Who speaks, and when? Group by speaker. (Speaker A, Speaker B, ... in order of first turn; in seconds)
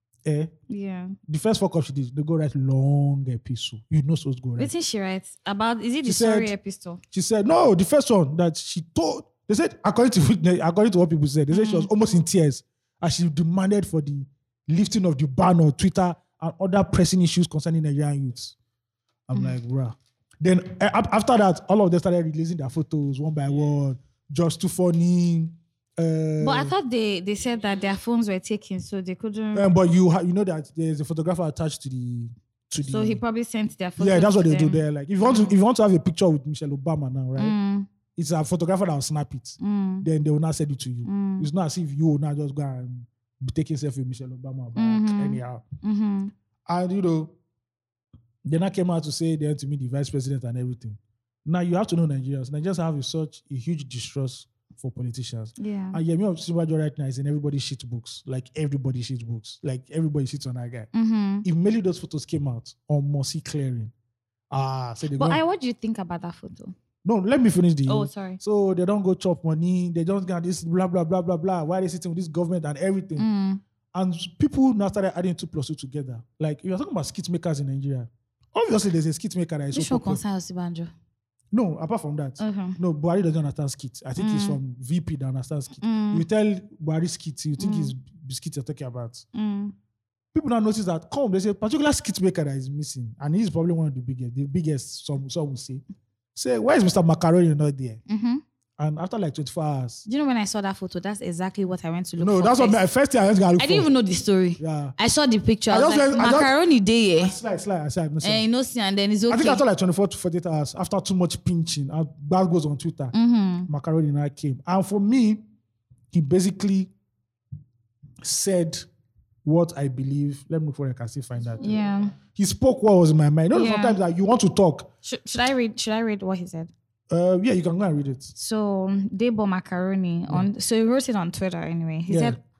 Speaker A: 0.2-0.5, 1.3-4.7, 6.0-6.5, 7.1-18.6, 19.3-26.7, 29.5-33.2, 34.0-37.5, 38.1-45.6, 46.7-47.3, 48.4-60.9, 61.4-63.9, 64.5-65.4, 67.0-73.2, 73.9-80.2, 81.5-89.2, 90.3-95.8, 96.3-98.0, 98.8-100.0, 102.2-103.9, 104.6-104.9, 105.7-106.5, 107.2-108.5, 109.3-113.1, 113.7-115.4, 116.1-116.9, 118.2-118.8, 119.4-124.9, 127.1-128.3, 132.1-132.3
Speaker B: 0.7-1.2, 4.6-7.0, 11.5-11.9, 26.4-29.7, 32.8-35.6, 37.4-37.9, 39.6-40.1, 41.0-41.5, 44.8-46.3, 55.6-56.0, 60.9-61.5, 65.2-66.7, 67.9-68.4, 73.2-73.6, 79.7-80.9, 82.4-82.8, 84.2-84.6, 85.8-86.2, 87.6-87.9, 89.3-89.7, 98.1-98.4, 100.0-102.8, 103.6-107.4, 108.2-109.6, 113.1-113.7, 121.6-122.1, 123.5-124.0, 125.0-126.7, 128.3-132.4